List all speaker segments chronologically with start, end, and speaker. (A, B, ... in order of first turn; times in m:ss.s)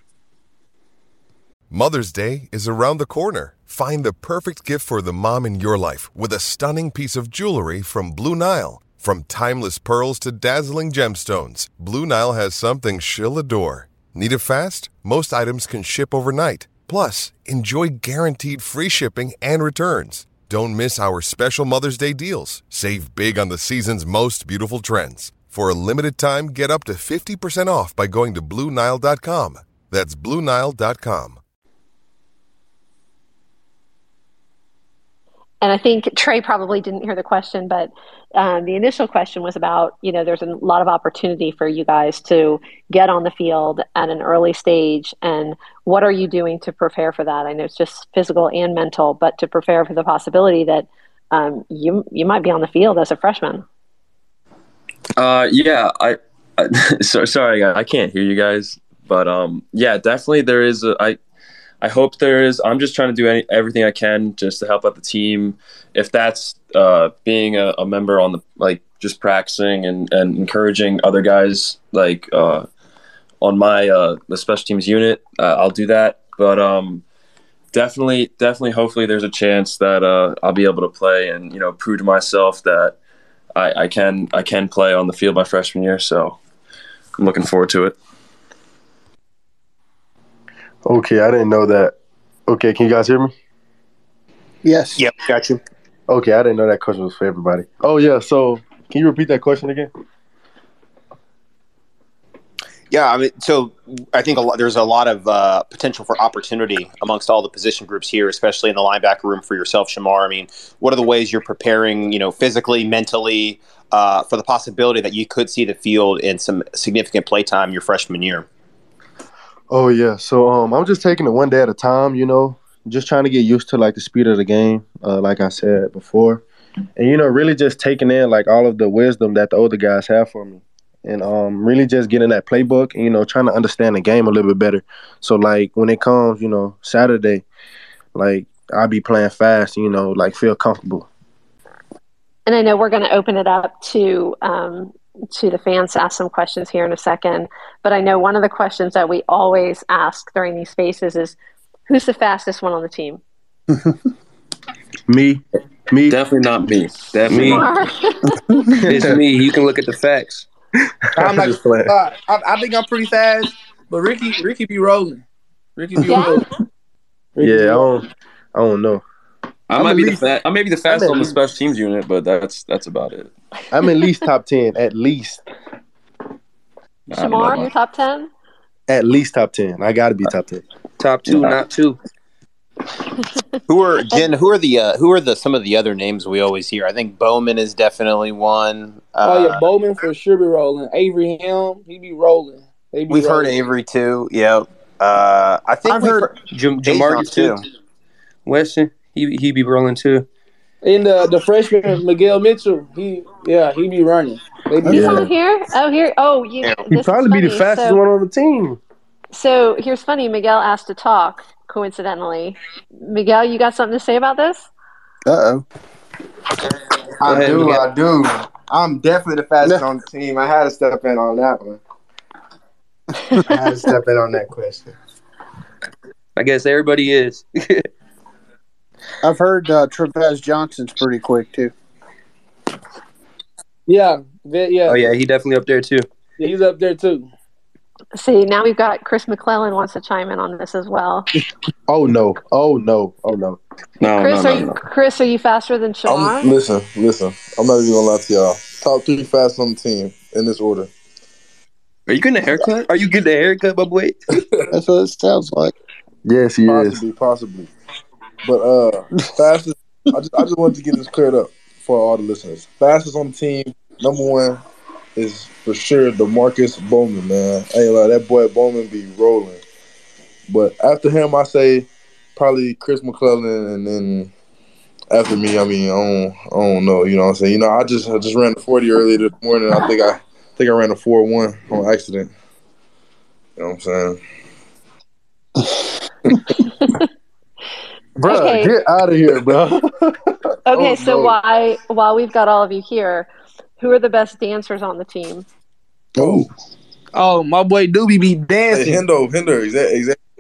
0:01.7-0:31.4 A
0:35.6-0:53.6 B
0:55.2-1:01.2 C
1:01.8-1:12.7 C
1:13.4-1:17.0 C
1:17.7-1:23.0 C
1:23.6-1:26.4 C
1:27.2-1:28.0 C
1:30.8-1:32.0 D
1:32.5-1:33.3 D
1:34.6-1:35.0 E
1:35.0-1:35.6 F
1:36.1-1:39.9 D
1:42.9-1:58.5 F
1:59.7-2:06.4 D
2:07.0-2:17.4 D
2:18.2-2:21.1 D
2:22.5-2:31.4 B
2:31.9-2:33.2 B
2:35.1-2:36.2 D
2:36.1-2:37.7 C
2:37.3-2:37.6 G
2:37.4-2:38.2 B
2:38.8-2:39.2 D
2:38.9-2:40.5 G
2:41.2-2:45.2 H
2:41.2-2:41.9 D
2:45.8-2:46.4 H
2:46.0-2:46.4 B
2:47.4-2:47.9 H
2:47.4-2:49.0 D
2:49.7-2:53.3 C
2:49.8-2:50.2 D
2:50.9-2:51.3 H
2:53.7-2:55.4 D
2:57.1-2:57.7 C
2:57.1-2:58.3 B
2:58.9-3:00.6 D
3:01.0-3:02.0 G
3:01.3-3:01.6 C
3:03.7-3:09.6 F
3:09.2-3:13.5 H
3:13.1-3:16.3 F
3:15.9-3:17.6 G
3:16.8-3:17.6 F
3:18.4-3:20.3 G
3:20.8-3:25.2 H
3:24.9-3:25.3 D
3:24.9-3:28.0 B
3:26.9-3:28.8 D
3:29.3-3:34.7 B
3:35.3-3:35.6 E
3:37.2-3:41.8 I
3:43.5-3:44.9 I
3:46.4-3:47.8 G
3:49.2-3:51.7 E
3:53.9-3:55.0 H
3:54.9-3:56.1 G
3:56.4-3:57.3 H
3:58.1-4:01.3 B
4:01.9-4:03.6 D
4:04.0-4:04.8 C
4:04.2-4:06.5 B
4:06.1-4:10.9 J
4:12.1-4:14.2 G
4:14.8-4:15.7 E
4:16.2-4:17.0 D
4:16.7-4:17.7 J
4:18.4-4:24.6 J
4:25.2-4:29.6 J
4:30.5-4:34.3 J
4:35.1-4:42.3 J
4:43.6-4:44.2 J
4:48.2-4:50.1 D
4:48.2-4:48.8 B
4:50.7-4:55.5 B
4:50.7-4:51.2 D
4:56.2-4:56.5 J
4:57.1-4:59.0 H
4:58.7-5:00.2 J